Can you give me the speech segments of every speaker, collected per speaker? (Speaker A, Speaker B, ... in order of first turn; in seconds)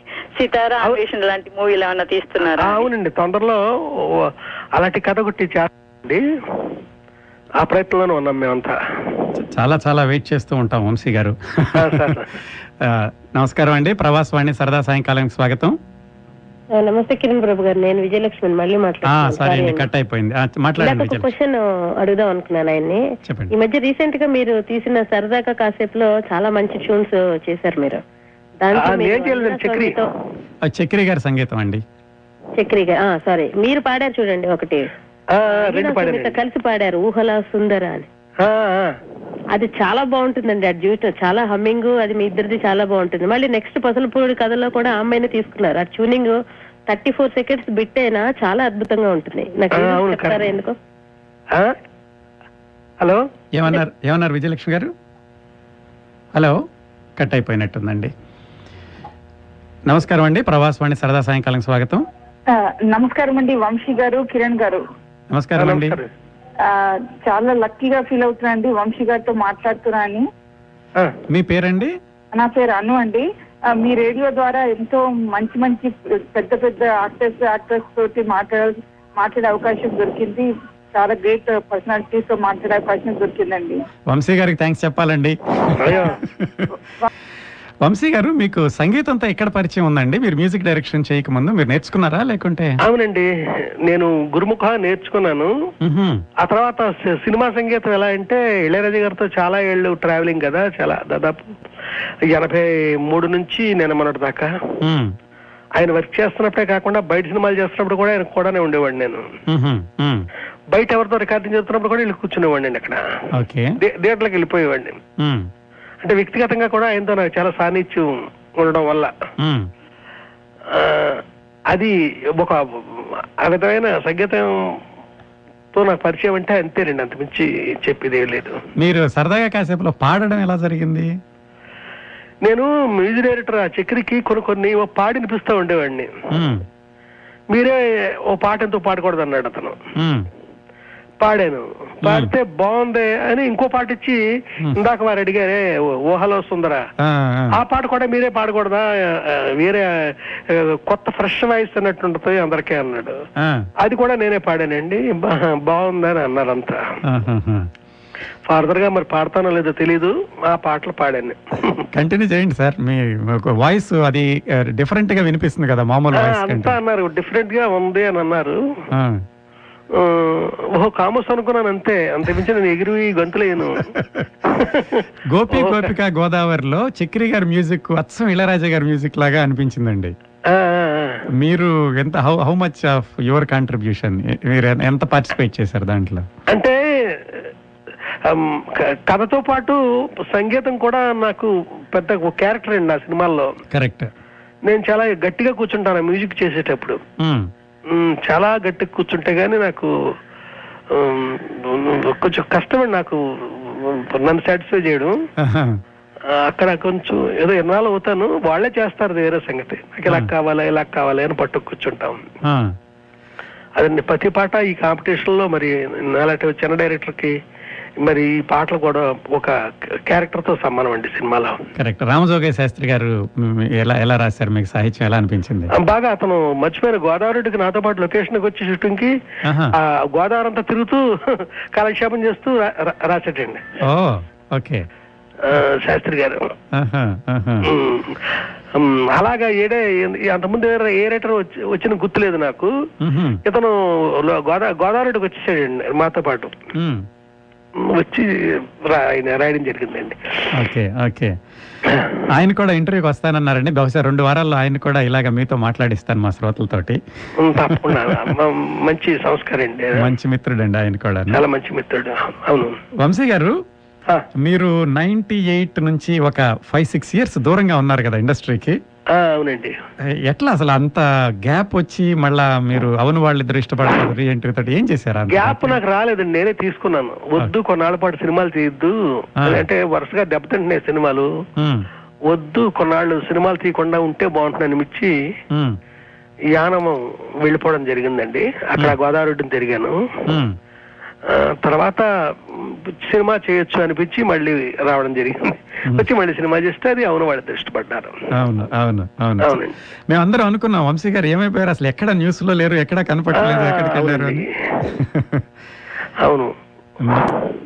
Speaker A: 0.4-2.9
Speaker B: 2.4-6.2, 7.6-8.8, 11.8-12.3, 28.8-30.0, 35.4-36.4, 38.4-39.0, 49.7-50.4, 65.6-66.1, 85.8-86.2, 92.8-93.3, 93.8-95.5, 96.4-101.5, 102.3-104.5, 105.8-109.3, 110.7-113.0, 113.8-115.0, 116.0-119.1, 120.7-124.8, 125.7-128.6, 132.4-136.1, 137.5-137.8, 138.3-139.8, 141.2-146.8, 147.5-153.2, 153.8-156.8, 158.5-161.8, 166.1-168.6, 169.9-173.9, 174.6-175.9, 180.5-181.3, 186.5-187.5, 188.2-193.5, 194.7-197.0, 197.9-199.9, 200.9-205.2, 206.4-212.2, 213.8-217.4, 218.0-221.6, 225.7-229.2, 229.7-233.7, 235.4-236.5, 237.7-242.7, 243.4-246.5, 247.8-250.2, 257.4-260.1, 261.3-262.8, 269.1-269.8, 275.3-281.3, 282.3-285.1, 286.5-290.0, 291.3-298.2, 299.4-299.7, 303.3-304.6, 306.2-306.6
Speaker C: 9.3-12.2, 12.8-15.8, 19.1-21.3, 23.3-23.5, 30.7-31.8, 53.5-54.9, 57.2-58.1, 59.9-62.0, 65.3-66.0, 71.3-71.9, 84.1-86.7, 87.8-92.8, 95.8-96.2, 104.8-105.2, 109.5-110.3, 113.4-113.7, 115.2-115.5, 119.4-119.7, 128.8-131.1, 136.3-136.6, 140.0-140.3, 142.1-142.3, 147.0-147.6, 153.4-153.7, 157.0-157.7, 161.9-166.8, 168.9-169.2, 175.3-180.1, 181.3-186.3, 193.7-194.1, 197.2-197.5, 205.4-205.8, 212.4-212.8, 221.8-225.7, 229.4-229.8, 233.8-234.9, 236.7-237.7, 243.0-243.4, 246.8-247.1, 250.5-251.4, 252.3-257.0, 257.7-258.1, 260.0-261.4, 263.0-263.6, 264.4-268.8, 270.2-275.8, 281.6-281.9, 285.5-285.8, 290.3-290.6, 298.4-305.4, 307.0-307.3
Speaker D: 16.8-19.9, 20.8-28.0, 28.6-30.1, 32.6-34.9, 35.5-38.1, 39.5-50.8
Speaker E: 62.5-64.8, 66.7-70.2, 72.3-83.8